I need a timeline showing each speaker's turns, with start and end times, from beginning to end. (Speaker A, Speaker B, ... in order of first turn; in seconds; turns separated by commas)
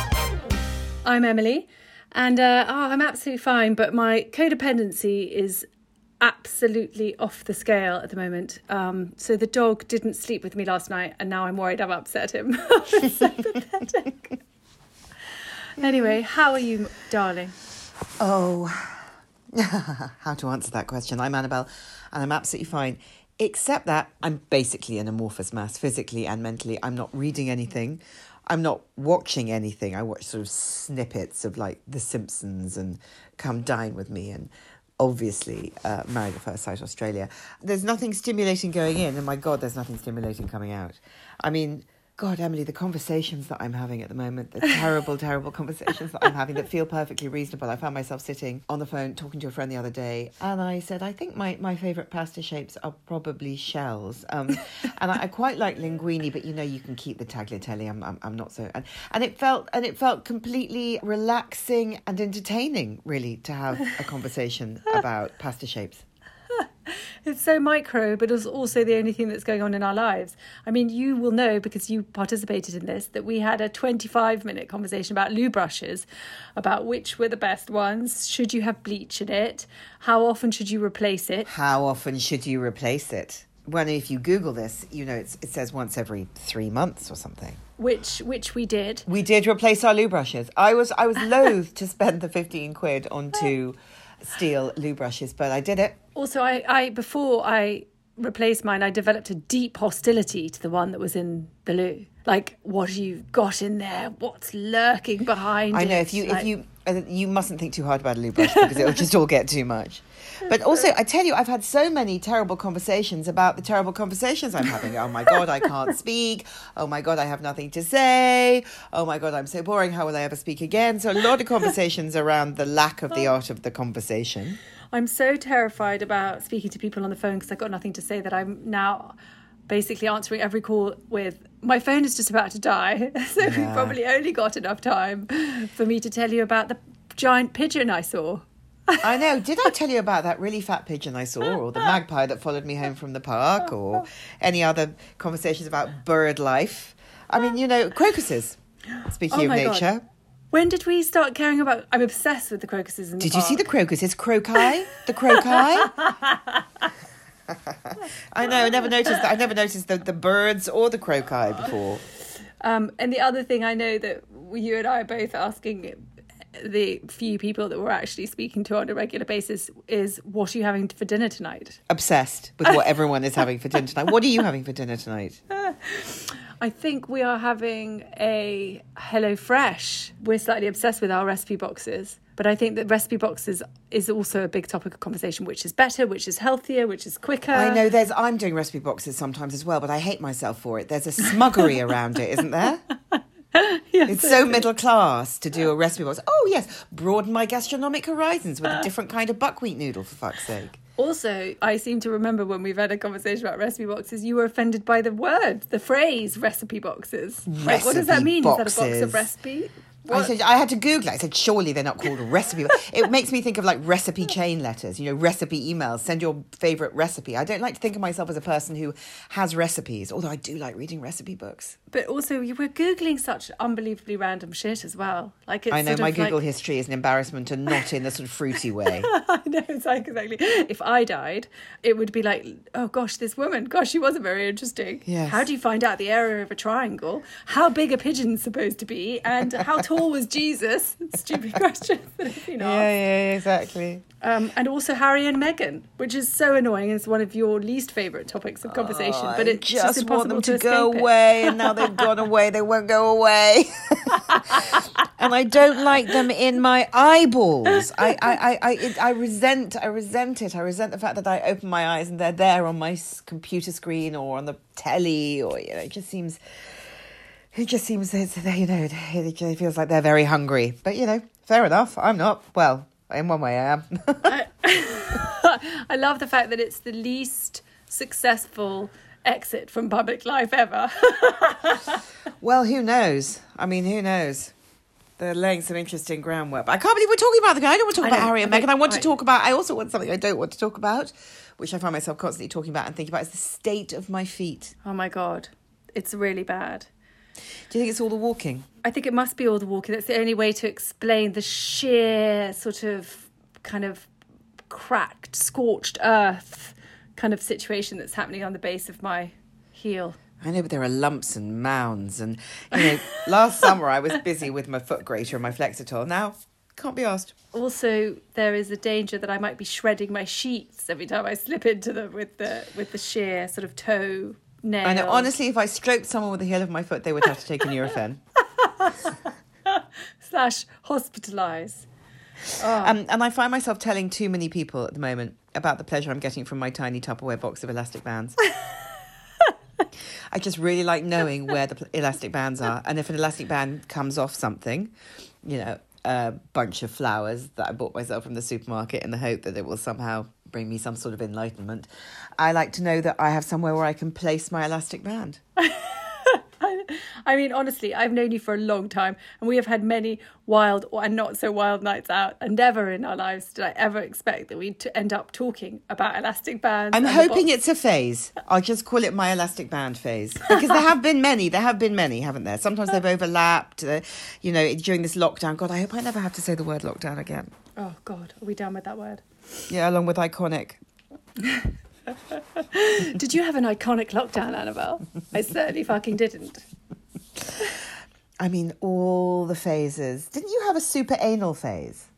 Speaker A: 1.1-5.7, Speaker A: 6.2-14.2, Speaker A: 15.8-17.6, Speaker B: 18.2-66.0, Speaker A: 66.6-76.1, Speaker A: 76.6-81.5, Speaker B: 81.5-87.6, Speaker A: 87.8-89.1, Speaker B: 89.1-96.0, Speaker A: 96.2-106.5, Speaker B: 105.7-124.6, Speaker A: 108.4-109.0, Speaker A: 124.9-129.2, Speaker A: 129.7-139.1, Speaker B: 133.4-134.0, Speaker B: 139.0-150.0, Speaker A: 149.3-149.8, Speaker A: 150.5-153.6, Speaker B: 153.2-156.1, Speaker A: 155.3-156.9, Speaker B: 157.5-162.0, Speaker A: 162.6-166.0, Speaker A: 166.6-171.8, Speaker B: 171.9-175.4, Speaker A: 175.5-187.8, Speaker B: 187.5-192.8, Speaker A: 193.1-194.7, Speaker B: 194.1-200.8, Speaker A: 201.0-210.3, Speaker B: 207.5-209.3, Speaker B: 210.1-221.8, Speaker A: 221.9-226.4, Speaker B: 225.7-229.1, Speaker A: 229.0-242.9, Speaker B: 235.1-235.5, Speaker B: 242.6-244.0, Speaker A: 244.2-252.0, Speaker B: 248.7-266.4, Speaker B: 267.5-274.3, Speaker A: 274.2-282.0, Speaker B: 282.4-284.5, Speaker B: 285.2-294.7, Speaker A: 288.0-289.1, Speaker A: 294.8-296.9, Speaker B: 297.7-298.7, Speaker A: 298.8-304.1, Speaker A: 304.7-310.2, Speaker B: 310.4-317.3, Speaker A: 312.7-313.7, Speaker A: 317.5-325.3, Speaker B: 324.8-328.2, Speaker A: 328.5-331.9, Speaker A: 332.6-332.9, Speaker B: 332.8-338.4, Speaker B: 340.3-344.9, Speaker B: 345.4-355.4, Speaker A: 355.6-367.5, Speaker B: 366.9-377.5, Speaker A: 377.8-379.6, Speaker B: 379.7-380.8, Speaker A: 381.4-386.6, Speaker B: 388.4-392.1